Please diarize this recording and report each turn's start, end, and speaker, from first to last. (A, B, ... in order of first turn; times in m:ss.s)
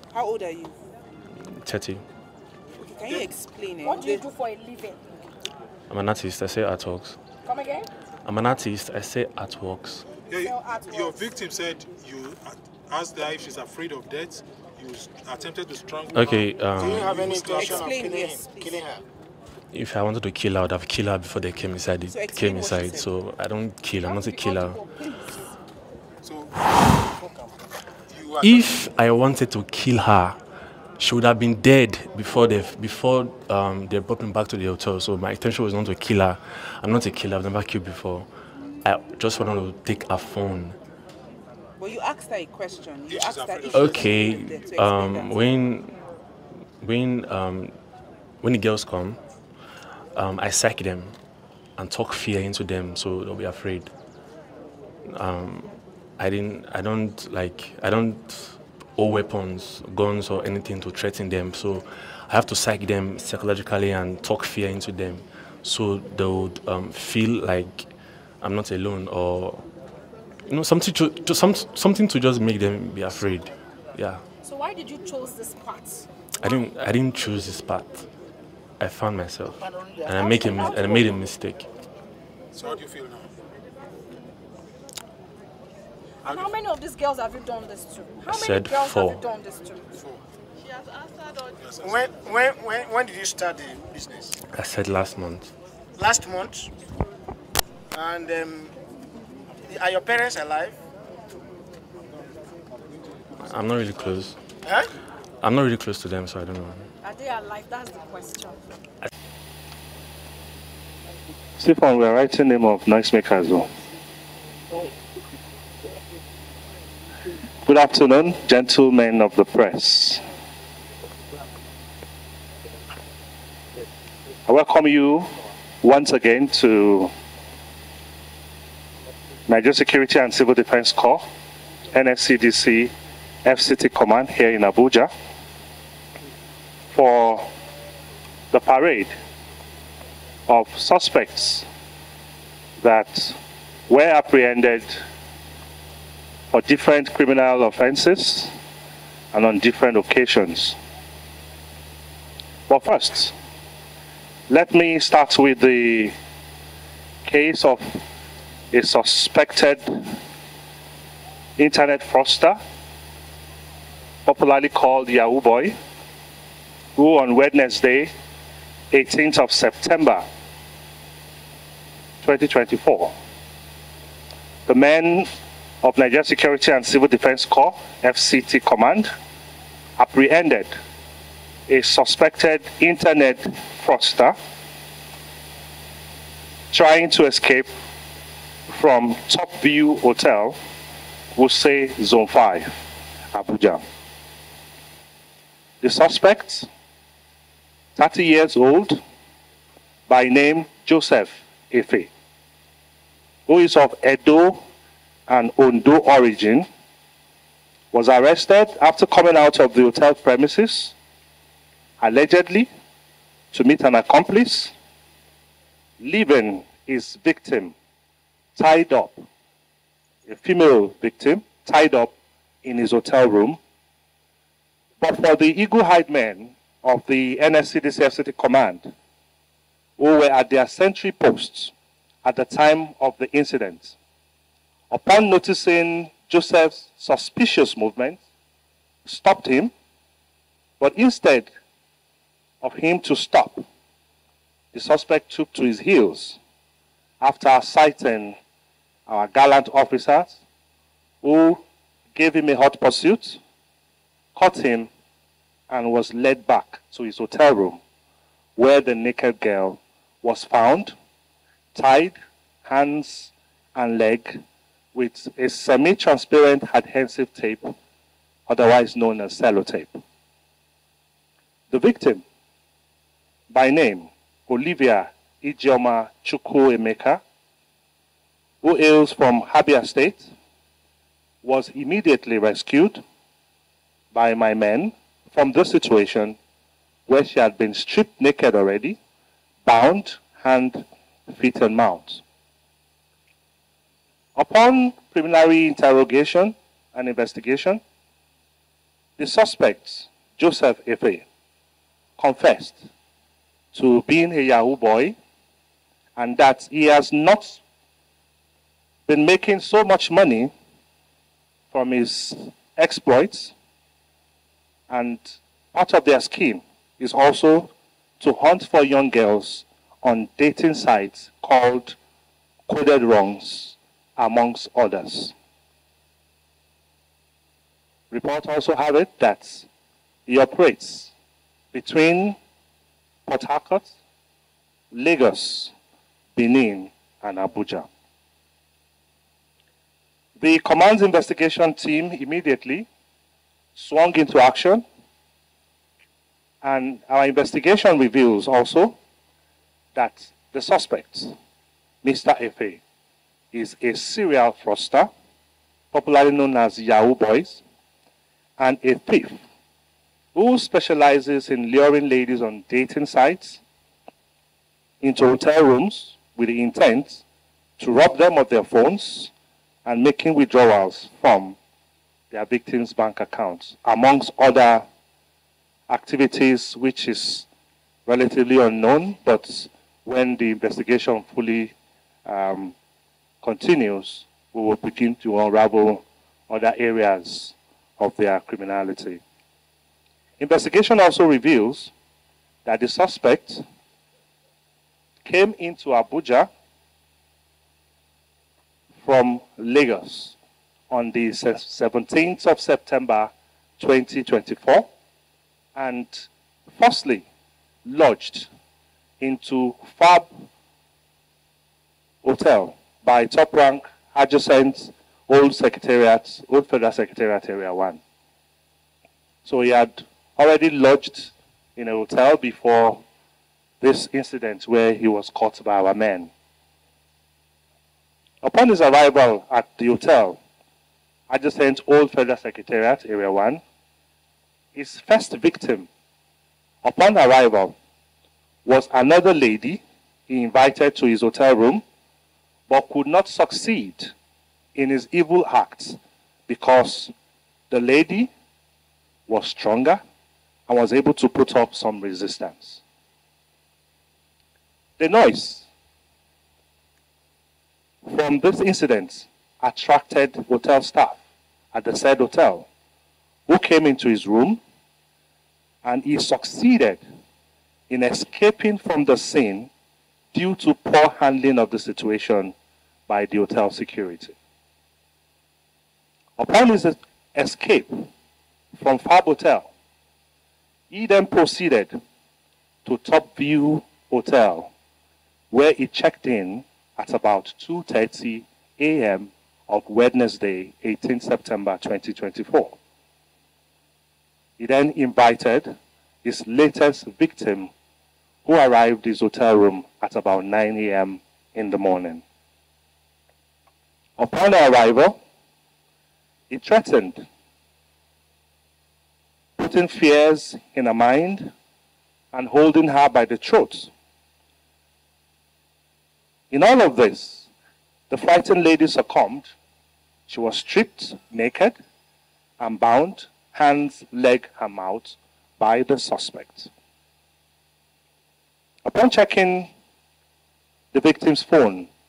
0:00.1-0:00.8 A
0:01.4-0:02.0 B
0:02.8-0:04.3 A
0:03.0-0:03.4 C
0:03.8-0:05.0 D
0:05.9-0:07.2 B
0:07.5-0:07.9 D
0:08.2-0:10.1 B
0:10.3-0:18.0 C
0:10.4-0:11.2 D
0:16.1-0:17.2 B
0:16.8-0:19.0 E
0:17.5-0:18.8 A
0:19.7-0:24.8 B
0:22.1-0:23.1 A
0:24.0-0:25.4 D
0:26.2-0:27.1 C
0:28.1-0:28.8 C
0:28.4-0:30.4 B
0:31.0-0:38.3 B
0:38.8-0:40.8 B
0:41.8-0:45.3 A
0:43.1-0:44.0 C
0:43.7-0:46.0 B
0:46.8-0:47.8 B
0:48.4-0:49.2 B
0:50.2-0:51.2 B
0:51.8-0:53.9 B
0:55.1-1:07.9 B
1:08.4-1:09.6 B
1:10.5-1:14.2 B
1:14.4-1:16.1 D
1:16.4-1:18.1 B
1:18.8-1:21.7 B
1:20.2-1:21.1 D
1:22.5-1:23.3 C
1:26.2-1:26.5 C
1:26.2-1:30.0 D
1:28.3-1:29.2 B
1:31.6-1:32.1 C
1:31.8-1:34.4 E
1:34.5-1:35.5 B
1:36.0-1:36.7 E
1:37.9-1:38.7 E
1:39.6-1:40.8 E
1:43.4-1:44.4 B
1:45.4-1:46.9 B
1:47.0-1:48.6 D
1:51.6-1:53.7 F
1:57.7-2:00.2 F
2:04.5-2:05.3 F
2:05.8-2:07.1 F
2:09.5-2:11.2 F
2:11.9-2:12.9 F
2:13.4-2:15.1 F
2:16.9-2:17.4 F
2:18.5-2:19.1 F
2:20.5-2:21.7 F
2:22.8-2:23.4 F
2:23.9-2:25.0 F
2:26.5-2:28.5 F
2:29.3-2:30.8 F
2:32.7-2:33.3 F
2:34.5-2:36.1 F
2:37.2-2:38.0 F
2:38.7-2:40.1 F
2:41.6-2:42.6 F
2:44.3-2:45.8 F
2:47.0-2:48.1 F
2:48.9-2:50.2 F
2:52.2-2:53.1 F
2:54.7-2:55.3 F
2:55.8-2:59.1 F
3:00.0-3:00.8 F
3:01.7-3:04.4 F
3:06.7-3:07.7 F
3:08.7-3:10.6 F
3:11.4-3:13.8 F
3:15.8-3:16.7 F
3:18.0-3:19.0 F
3:20.1-3:22.1 F
3:23.5-3:24.6 F
3:25.3-3:26.7 F
3:27.9-3:31.0 F
3:32.0-3:32.7 F
3:33.5-3:34.7 F
3:36.0-3:37.8 F
3:38.6-3:39.2 F
3:40.3-3:43.6 F
3:45.0-3:48.9 F
3:50.0-3:51.7 F
3:52.2-3:54.0 F
3:54.9-3:58.2 F
3:59.0-3:59.7 F
4:00.8-4:01.5 F
4:02.6-4:03.7 F
4:04.7-4:06.4 F
4:07.2-4:08.4 F
4:09.1-4:10.4 F
4:11.2-4:11.6 F
4:12.2-4:13.4 F
4:14.4-4:14.9 F
4:15.7-4:17.8 F
4:18.6-4:21.0 F
4:21.8-4:24.4 F
4:24.9-4:27.8 F
4:28.5-4:30.0 F
4:31.7-4:32.2 F
4:33.5-4:37.2 F
4:38.6-4:40.3 F
4:41.4-4:43.0 F
4:44.1-4:46.4 F
4:47.1-4:49.0 F
4:49.6-4:52.2 F
4:54.4-4:57.8 F
4:59.2-5:01.3 F
5:02.2-5:02.8 F
5:03.7-5:05.2 F
5:06.2-5:07.6 F
5:09.1-5:10.5 F
5:11.7-5:13.6 F
5:14.9-5:22.0 F
5:22.7-5:25.3 F
5:28.1-5:29.7 F
5:30.3-5:31.1 F
5:31.7-5:32.4 F
5:33.3-5:33.9 F
5:34.9-5:35.7 F
5:36.4-5:37.9 F
5:40.4-5:42.9 F
5:43.8-5:44.9 F
5:46.6-5:49.0 F
5:50.0-5:51.3 F
5:52.0-5:52.8 F
5:53.5-5:55.1 F
5:55.9-5:57.6 F
5:58.6-5:59.4 F
6:00.4-6:03.6 F
6:05.0-6:07.2 F
6:07.8-6:09.3 F
6:09.9-6:11.6 F
6:12.3-6:14.8 F
6:15.9-6:17.5 F
6:18.1-6:21.8 F
6:22.3-6:22.8 F
6:23.4-6:29.2 F
6:30.4-6:31.9 F
6:32.6-6:33.6 F
6:35.2-6:36.5 F
6:39.0-6:40.4 F
6:40.9-6:44.9 F
6:45.8-6:47.3 F
6:47.8-6:48.5 F
6:49.2-6:50.4 F
6:52.2-6:58.0 F
6:59.4-7:03.0 F
7:03.8-7:06.3 F
7:08.4-7:10.4 F
7:11.3-7:13.6 F
7:14.8-7:15.9 F
7:16.8-7:17.8 F
7:18.6-7:21.8 F
7:22.7-7:24.1 F
7:24.8-7:27.1 F
7:27.7-7:28.3 F
7:29.3-7:30.0 F
7:30.7-7:32.8 F
7:35.0-7:35.7 F
7:38.1-7:41.2 F
7:41.7-7:42.7 F
7:43.5-7:44.6 F
7:45.8-7:47.0 F
7:47.9-7:49.7 F
7:50.3-7:52.6 F
7:53.1-7:54.4 F
7:56.4-7:58.1 F
7:58.7-7:59.7 F
8:00.9-8:02.0 F
8:02.9-8:04.7 F
8:05.5-8:12.8 F
8:14.6-8:15.7 F
8:16.2-8:17.7 F
8:18.4-8:22.2 F
8:24.2-8:25.2 F
8:26.5-8:27.3 F
8:29.6-8:31.5 F
8:32.3-8:33.9 F
8:36.5-8:37.5 F
8:38.1-8:39.6 F
8:40.3-8:41.8 F
8:42.6-8:46.7 F
8:48.8-8:49.7 F
8:50.9-8:51.9 F